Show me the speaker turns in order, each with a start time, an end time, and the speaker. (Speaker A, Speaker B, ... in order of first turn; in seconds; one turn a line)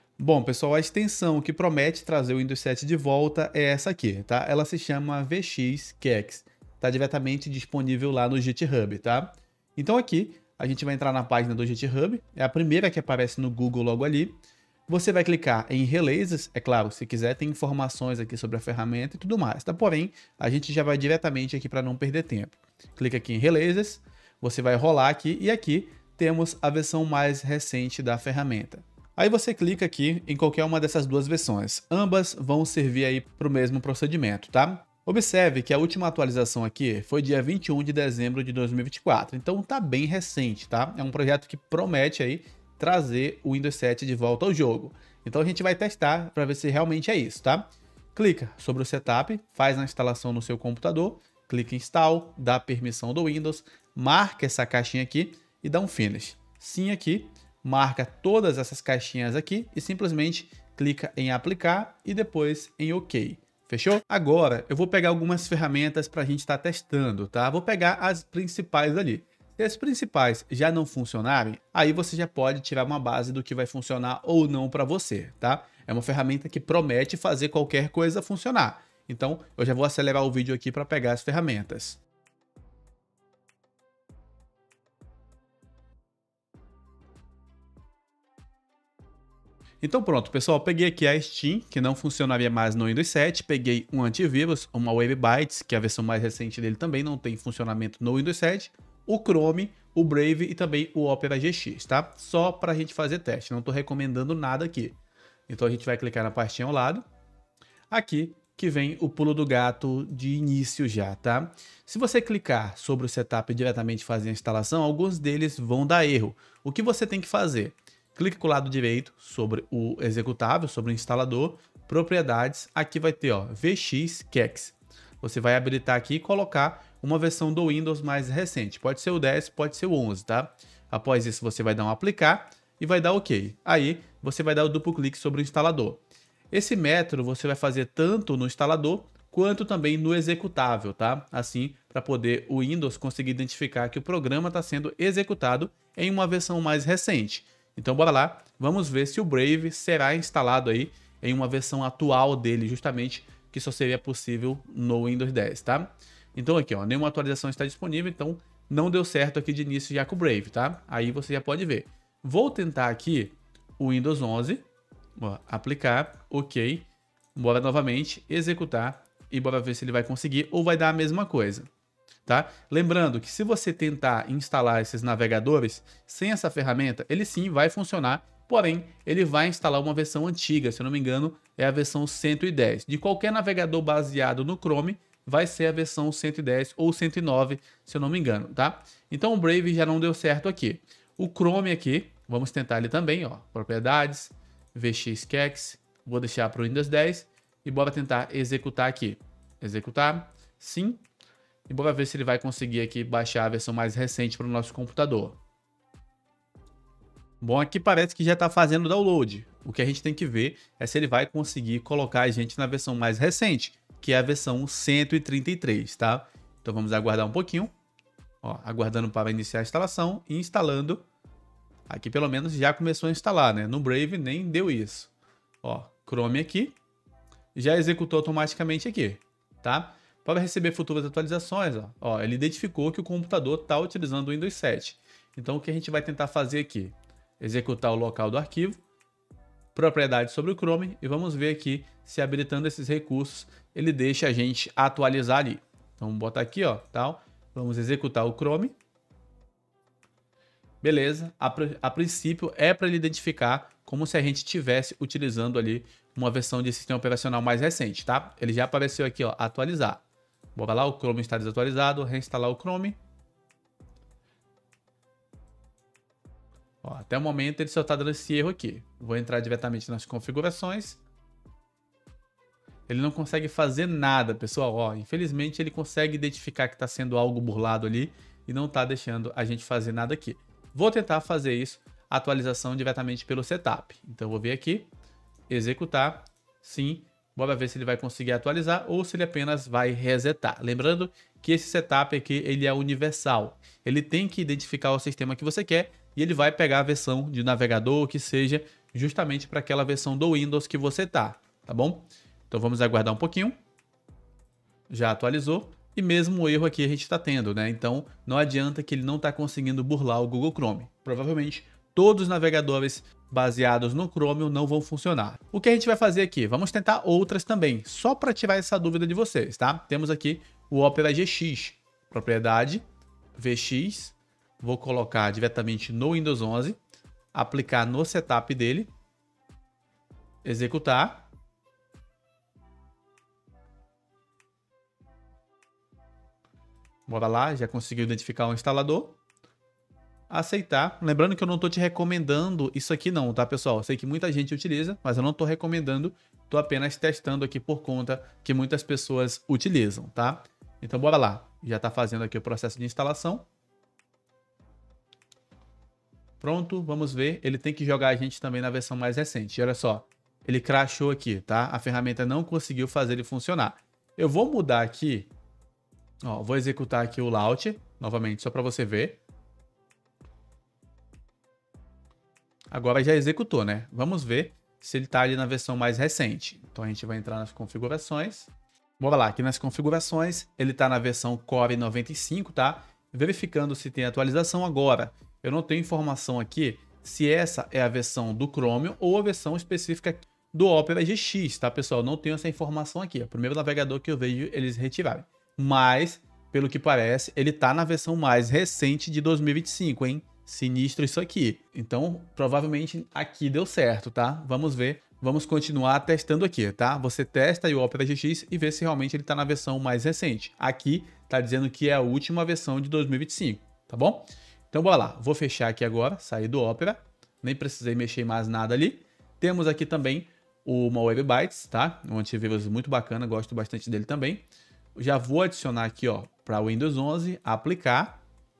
Speaker A: 0.2-14.4
Speaker A: 14.9-82.0
Speaker A: 89.8-105.0
Speaker A: 105.5-107.0
Speaker A: 107.9-164.6
Speaker A: 165.2-171.7
Speaker A: 172.2-201.0
Speaker A: 201.7-205.4
Speaker A: 207.4-217.7
Speaker A: 218.4-221.0
Speaker A: 221.9-225.1
Speaker A: 225.6-226.8
Speaker A: 227.5-238.8
Speaker A: 239.7-248.7
Speaker A: 250.8-260.0
Speaker A: 260.5-263.0
Speaker A: 266.8-271.0
Speaker A: 272.9-284.9
Speaker A: 285.5-303.6
Speaker A: 304.9-322.8
Speaker A: 323.3-326.8
Speaker A: 327.3-328.9
Speaker A: 330.4-331.3
Speaker A: 337.1-339.2
Speaker A: 340.3-353.4
Speaker A: 356.4-365.3
Speaker A: 366.2-369.2
Speaker A: 372.7-424.4
Speaker A: 424.9-428.2